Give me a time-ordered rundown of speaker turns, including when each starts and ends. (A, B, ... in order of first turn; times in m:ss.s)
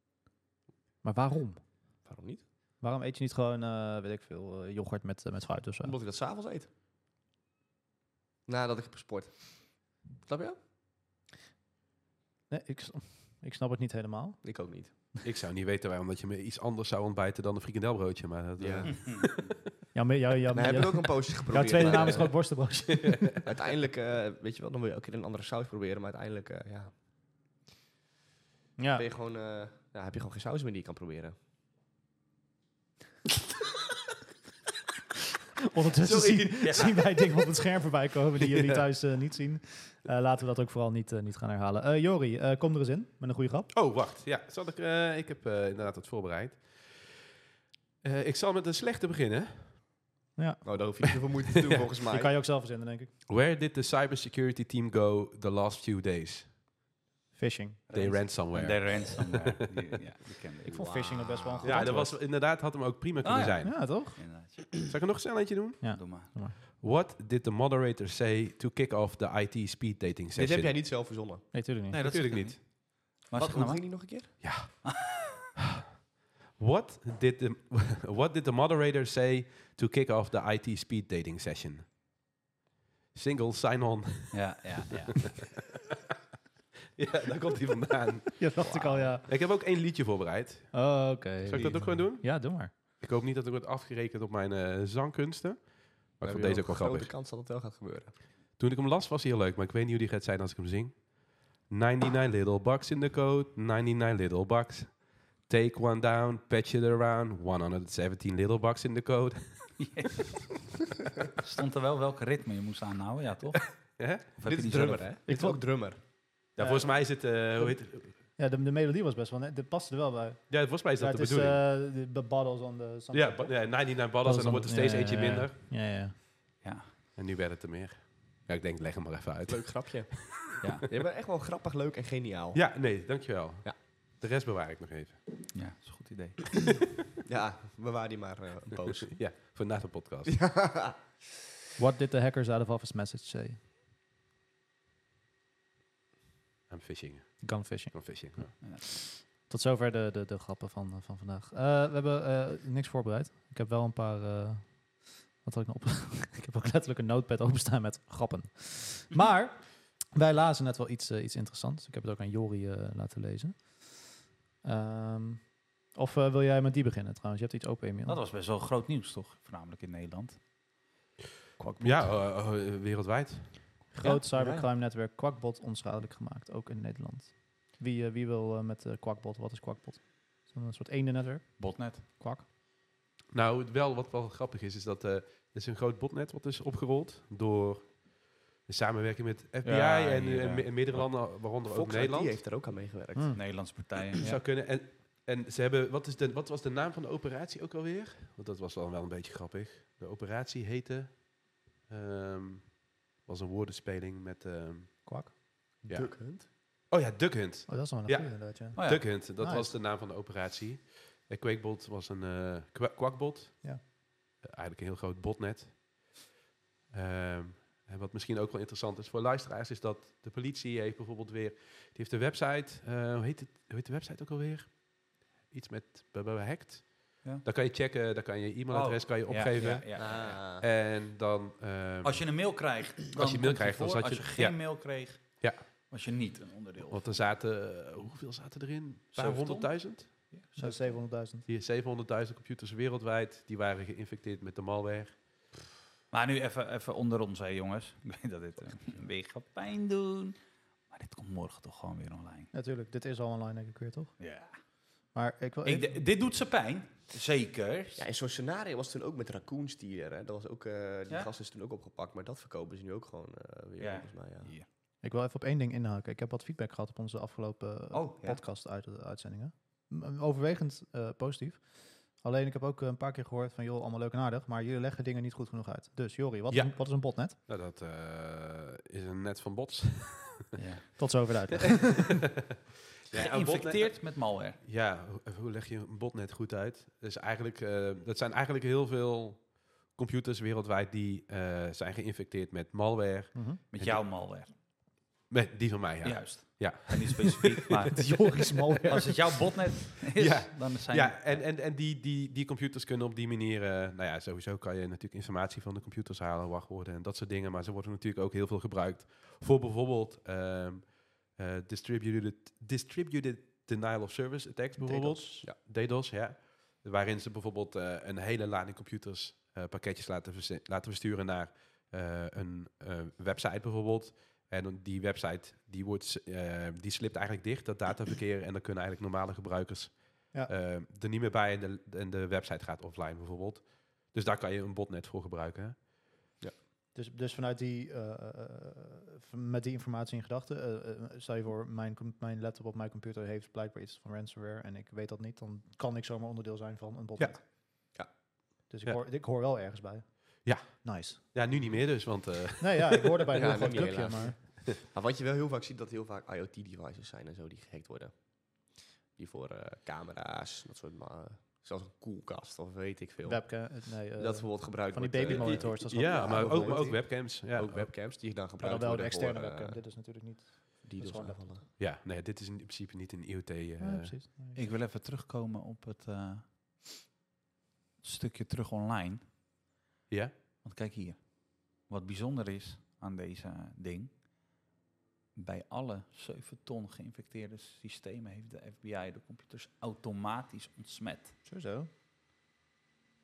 0:01.0-0:01.6 A
0:02.0-0:02.4 B
0:02.8-0:06.0 A
0:05.8-0:06.7 B
0:08.5-0:10.6 B
0:12.5-0:14.4 A
0:14.4-0:14.9 B
0:15.2-0:19.6 C
0:18.6-0:18.9 B
0:19.9-0:23.4 A
0:20.5-0:22.4 B
0:23.1-0:23.4 C
0:23.4-0:26.9 B
0:28.8-0:29.1 A
0:29.0-0:31.4 B
0:35.7-0:43.7 A
0:36.0-0:36.8 B
0:36.6-0:37.2 D
0:43.7-0:47.3 C
0:48.0-0:49.9 C
0:50.4-0:50.6 A
0:50.6-0:52.3 B
0:52.1-0:53.1 A
0:53.3-0:56.5 C
0:57.4-0:57.8 A
0:57.9-1:01.8 D
0:57.9-1:00.0 C
1:00.7-1:01.9 B
1:00.7-1:02.2 A
1:01.6-1:03.8 C
1:03.2-1:04.9 D
1:03.6-1:04.2 A
1:04.9-1:05.9 C
1:05.8-1:06.6 A
1:06.0-1:06.3 D
1:06.6-1:10.8 C
1:10.4-1:11.5 B
1:11.5-1:12.0 A
1:11.9-1:14.4 D
1:12.0-1:12.6 C
1:13.3-1:14.4 B
1:14.4-1:15.5 C
1:16.6-1:21.9 C
1:23.1-1:24.6 C
1:24.3-1:25.4 D
1:27.0-1:37.1 C
1:28.4-1:29.3 A
1:28.6-1:29.2 B
1:30.7-1:32.7 A
1:36.2-1:38.2 B
1:38.6-1:50.1 C
1:49.8-1:50.5 D
1:51.4-1:53.8 D
1:54.0-1:54.3 C
1:54.4-1:55.1 D
1:54.4-1:56.0 B
1:55.3-1:55.6 A
1:56.6-1:58.1 C
1:56.6-2:06.2 A
2:00.5-2:01.6 C
2:03.1-2:05.6 C
2:06.6-2:06.9 D
2:07.2-2:10.4 C
2:09.5-2:12.9 B
2:10.6-2:10.9 D
2:12.5-2:15.2 C
2:15.5-2:16.8 D
2:17.2-2:19.2 B
2:19.1-2:20.4 C
2:20.3-2:21.1 B
2:21.8-2:23.6 A
2:26.7-2:28.7 C
2:27.4-2:28.6 A
2:29.2-2:44.1 A
2:44.6-2:48.2 A
2:48.1-2:50.4 D
2:51.6-2:52.1 A
2:51.8-2:53.8 C
2:53.9-3:02.4 A
2:54.3-2:54.7 B
3:01.6-3:02.0 D
3:03.3-3:12.4 C
3:09.6-3:11.1 D
3:11.7-3:13.4 B
3:13.2-3:13.4 A
3:13.3-3:14.4 D
3:14.2-3:25.2 C
3:25.1-3:25.3 A
3:25.9-3:26.5 B
3:25.9-3:33.8 C
3:27.7-3:29.8 A
3:28.8-3:29.1 D
3:34.4-3:36.3 C
3:36.9-3:52.2 C
3:48.7-3:50.4 D
3:50.0-3:50.7 B
3:52.0-3:57.2 D
3:53.1-3:55.6 C
3:56.9-4:00.1 C
3:59.2-4:01.0 D
4:00.6-4:01.5 A
4:01.5-4:05.2 C
4:06.1-4:10.4 D
4:10.9-4:12.5 D
4:12.5-4:14.2 A
4:14.2-4:14.6 D
4:15.1-4:16.0 A
4:15.6-4:18.1 D
4:18.0-4:24.5 B
4:23.8-4:24.7 D
4:25.0-4:37.4 A
4:27.9-4:28.4 D
4:36.5-4:40.5 C
4:40.6-4:41.1 D
4:41.0-4:42.2 A
4:43.1-4:54.0 C
4:43.1-4:44.6 D
4:53.4-4:53.6 A
4:53.7-4:54.5 D
4:55.3-4:57.8 C
4:56.0-5:01.4 D
4:57.9-4:59.2 A
5:00.1-5:35.8 C
5:14.8-5:15.5 A
5:37.0-5:47.4 A
5:48.7-5:51.2 A
5:50.4-5:53.2 C
5:52.6-5:54.4 A
5:53.3-6:09.8 B
6:03.2-6:07.0 A
6:05.3-6:07.9 C
6:08.6-6:11.4 A
6:10.8-6:11.7 B
6:11.8-6:14.2 C
6:13.8-6:14.6 A
6:14.6-6:16.5 D
6:18.0-6:19.2 D
6:20.6-6:24.1 D
6:25.4-6:31.3 D
6:31.4-6:31.9 A